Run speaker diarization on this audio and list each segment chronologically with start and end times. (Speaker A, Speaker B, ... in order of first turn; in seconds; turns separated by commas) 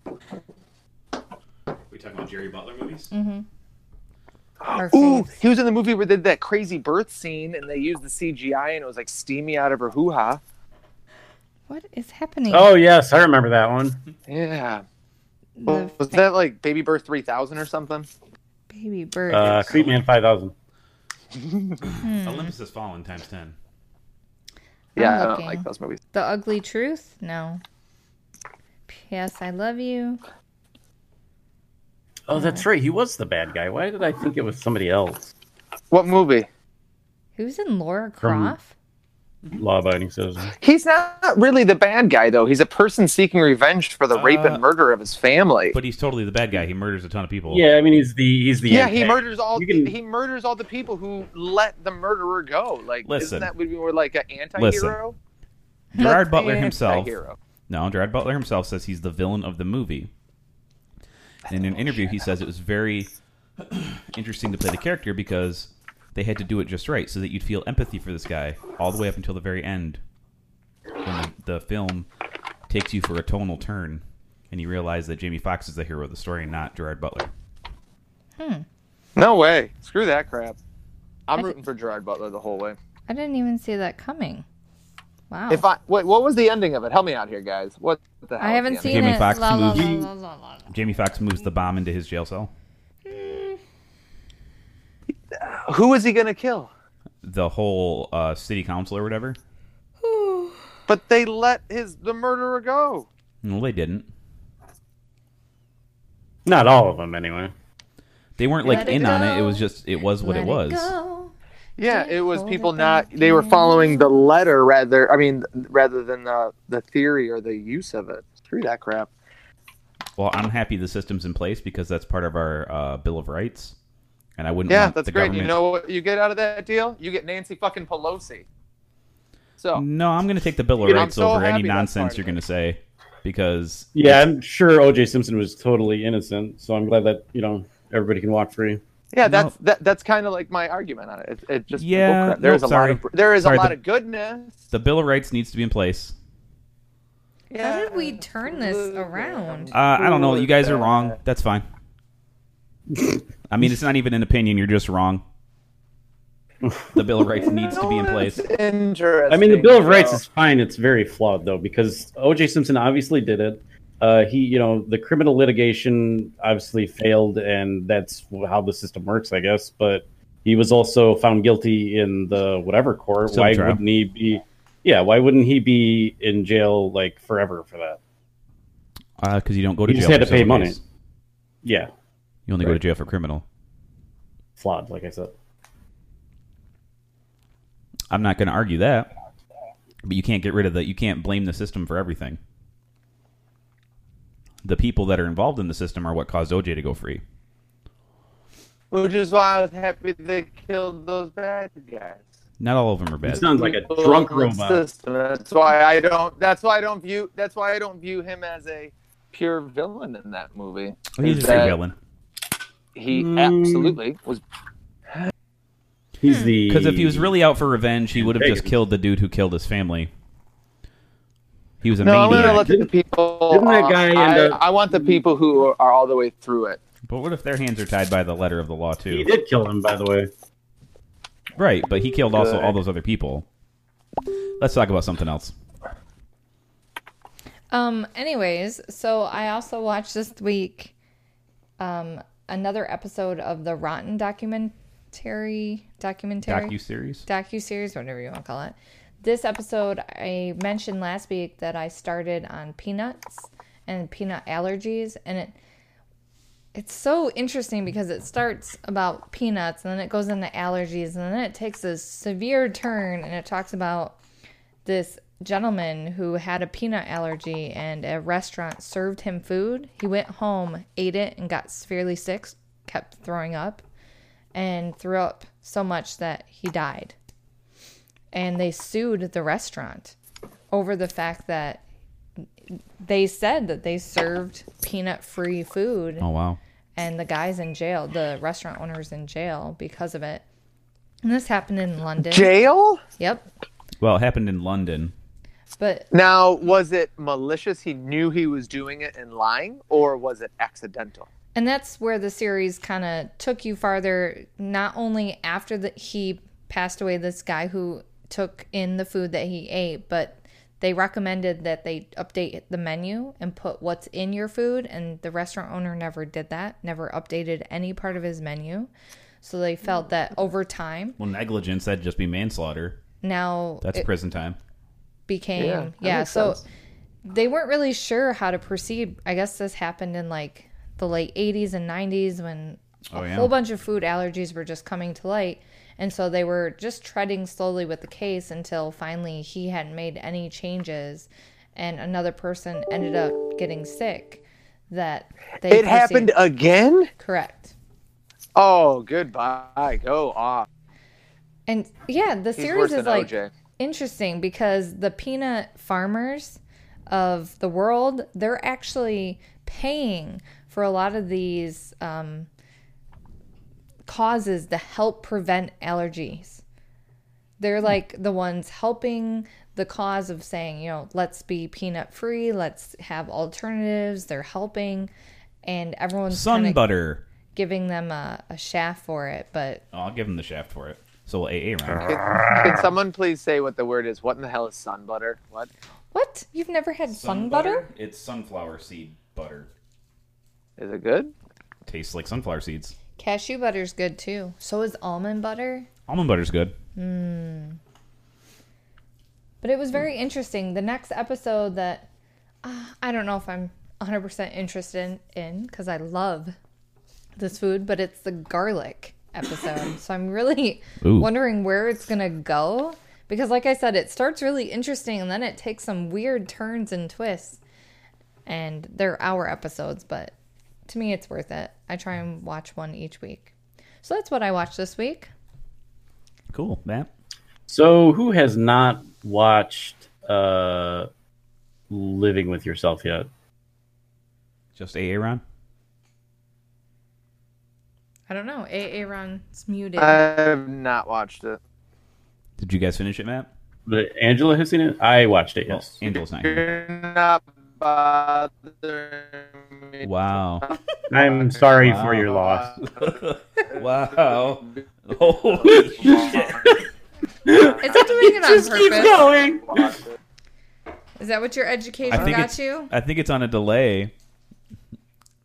Speaker A: 1.9-3.1, Speaker B: 3.1-3.5, Speaker C: 4.6-10.4, Speaker B: 4.8-5.3, Speaker B: 11.7-12.7, Speaker D: 12.5-14.0, Speaker C: 14.3-14.8, Speaker B: 15.6-16.2, Speaker C: 15.7-18.1, Speaker B: 18.7-19.8, Speaker D: 19.3-20.5, Speaker A: 19.6-20.0, Speaker C: 21.4-21.8, Speaker A: 21.8-23.5, Speaker B: 22.0-22.5, Speaker C: 24.9-26.0, Speaker B: 24.9-27.6, Speaker B: 28.9-30.2, Speaker D: 32.3-35.3, Speaker B: 32.3-32.6, Speaker C: 35.9-36.5, Speaker B: 37.4-38.7, Speaker D: 38.2-38.5, Speaker D: 39.5-40.5, Speaker C: 40.6-45.7, Speaker A: 44.1-44.6, Speaker A: 45.7-47.6, Speaker D: 47.5-49.9, Speaker C: 48.7-55.1, Speaker A: 53.0-53.5, Speaker A: 54.6-55.0, Speaker A: 55.9-57.1, Speaker C: 56.0-57.4, Speaker A: 57.7-60.1, Speaker A: 61.5-63.1, Speaker A: 63.7-70.0, Speaker A: 71.0-72.1, Speaker A: 72.7-77.3, Speaker B: 78.4-78.6, Speaker C: 79.2-80.6, Speaker C: 81.3-82.8, Speaker B: 83.1-84.4, Speaker B: 85.3-85.6, Speaker C: 85.5-89.2, Speaker B: 88.4-90.7, Speaker A: 88.8-90.0, Speaker D: 89.7-90.1, Speaker A: 90.7-92.5, Speaker B: 93.0-93.6, Speaker C: 95.4-96.7, Speaker A: 97.2-99.4, Speaker B: 100.0-100.7, Speaker C: 100.9-103.1, Speaker A: 103.4-104.1, Speaker D: 106.5-107.5, Speaker A: 108.4-110.9, Speaker B: 108.6-111.3, Speaker D: 108.7-109.1, Speaker C: 111.8-119.1, Speaker B: 111.8-114.1, Speaker A: 120.2-123.8, Speaker A: 124.4-125.6, Speaker C: 124.7-128.4, Speaker C: 129.6-129.8, Speaker A: 129.7-134.3, Speaker C: 130.8-132.4, Speaker D: 133.9-138.8, Speaker C: 139.1-144.6, Speaker A: 139.2-139.5, Speaker A: 141.8-143.8, Speaker A: 144.7-146.1, Speaker C: 147.5-151.2, Speaker B: 147.6-149.7, Speaker A: 149.7-151.7, Speaker D: 152.9-153.7, Speaker A: 153.5-155.2, Speaker D: 156.6-156.9, Speaker A: 156.9-158.4, Speaker C: 157.7-160.2, Speaker D: 159.3-178.0, Speaker A: 173.3-173.8, Speaker A: 179.2-180.8, Speaker D: 179.8-180.8, Speaker D: 181.6-181.9, Speaker A: 182.5-183.4, Speaker D: 184.6-185.3, Speaker A: 188.1-189.1, Speaker A: 190.0-192.4, Speaker A: 194.6-197.2, Speaker C: 198.9-202.3, Speaker A: 202.6-203.4, Speaker D: 203.2-204.8, Speaker C: 203.5-211.8, Speaker A: 211.1-211.9, Speaker C: 212.9-214.4, Speaker D: 213.1-214.0, Speaker D: 216.2-217.3, Speaker B: 216.2-216.5, Speaker A: 216.7-220.1, Speaker D: 218.1-218.8, Speaker A: 221.8-222.7, Speaker C: 222.0-226.8, Speaker D: 222.3-222.9, Speaker D: 223.5-225.2, Speaker A: 227.1-229.3, Speaker D: 229.1-230.3, Speaker A: 231.6-233.4, Speaker D: 232.3-232.8, Speaker A: 234.6-235.5, Speaker B: 237.7-240.9, Speaker B: 241.8-255.5, Speaker A: 246.4-247.3, Speaker B: 256.7-264.2, Speaker B: 264.8-273.8, Speaker B: 274.5-277.1, Speaker B: 278.3-280.1, Speaker B: 280.7-281.8, Speaker B: 283.0-286.2, Speaker A: 286.2-286.6, Speaker B: 286.9-290.4, Speaker B: 291.2-292.5, Speaker C: 292.2-293.0, Speaker B: 293.2-293.4, Speaker A: 294.0-295.1, Speaker B: 295.8-296.1, Speaker C: 296.1-301.3, Speaker B: 301.5-318.9, Speaker B: 319.4-321.2, Speaker A: 321.2-323.0, Speaker B: 323.2-324.1, Speaker A: 323.8-324.6, Speaker B: 325.3-326.6, Speaker C: 325.6-326.6, Speaker B: 327.2-346.3, Speaker A: 333.1-333.5, Speaker C: 345.7-347.1, Speaker B: 347.2-347.7, Speaker C: 348.6-350.7, Speaker B: 351.7-362.5, Speaker C: 352.6-353.5, Speaker B: 364.1-366.6, Speaker B: 367.6-375.1, Speaker B: 375.6-376.8, Speaker A: 376.3-377.2, Speaker B: 377.5-379.8, Speaker A: 379.9-382.1, Speaker D: 382.0-382.5, Speaker C: 382.0-385.7, Speaker B: 382.5-382.8, Speaker B: 386.1-387.8, Speaker A: 387.1-389.7, Speaker C: 390.8-391.3, Speaker A: 391.9-392.9, Speaker B: 393.2-395.9, Speaker A: 396.1-396.7, Speaker B: 396.9-397.8, Speaker B: 399.6-402.1, Speaker B: 402.6-406.6, Speaker B: 407.4-417.6, Speaker A: 411.0-411.3, Speaker B: 418.4-420.3, Speaker B: 420.9-423.5, Speaker B: 424.0-425.3, Speaker A: 426.5-427.1, Speaker D: 427.7-431.1, Speaker D: 431.9-433.3, Speaker A: 434.8-435.4, Speaker B: 438.3-440.2, Speaker C: 440.0-441.6, Speaker A: 442.6-443.5, Speaker D: 443.9-445.9, Speaker A: 445.7-446.6, Speaker C: 446.4-450.1, Speaker A: 450.0-450.6, Speaker C: 450.6-453.2, Speaker D: 451.1-452.8, Speaker A: 451.8-452.3, Speaker A: 452.9-456.6, Speaker C: 455.6-456.8, Speaker D: 455.7-456.8, Speaker D: 457.4-460.0, Speaker C: 457.5-460.1, Speaker B: 457.8-459.3, Speaker B: 461.2-462.9, Speaker A: 462.1-464.1